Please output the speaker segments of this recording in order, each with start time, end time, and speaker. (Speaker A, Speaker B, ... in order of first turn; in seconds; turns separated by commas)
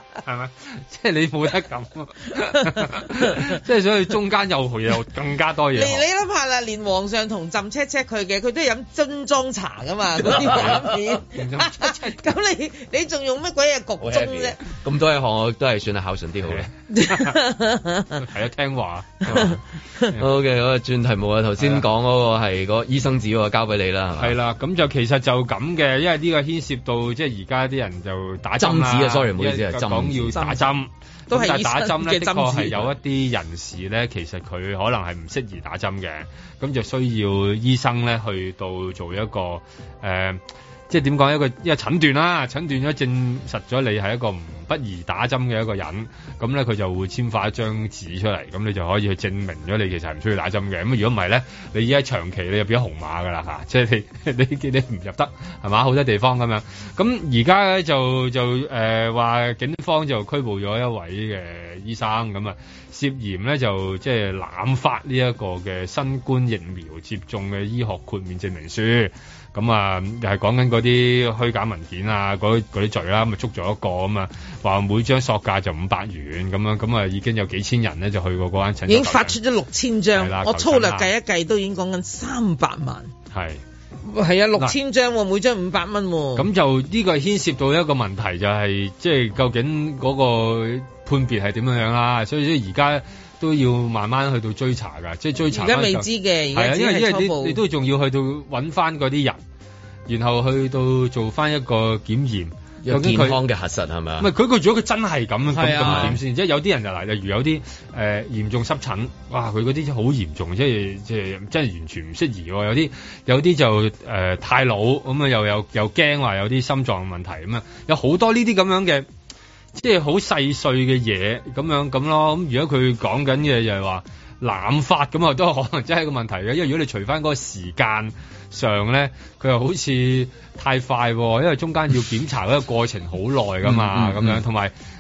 Speaker A: 0.2-6.0, Speaker B: 5.7-14.6, Speaker C: 10.2-10.9, Speaker A: 10.3-12.2, Speaker C: 14.0-16.6, Speaker A: 16.4-17.4, Speaker B: 16.9-18.2, Speaker A: 18.2-20.3, Speaker C: 20.2-24.4, Speaker A: 21.6-21.9, Speaker A: 24.2-79.4, Speaker C: 28.6-30.6, Speaker B: 31.3-32.8, Speaker B: 78.9-83.1, Speaker A: 80.1-81.1, Speaker A: 83.3-83.6, Speaker B: 84.0-86.5, Speaker A: 86.4-99.4, Speaker B: 95.5-97.6, Speaker A: 100.1-103.4, Speaker C: 102.8-104.3, Speaker A: 104.2-119.1, Speaker B: 105.5-106.2, Speaker C: 105.7-106.2, Speaker A: 119.7-134.7, Speaker C: 133.6-134.4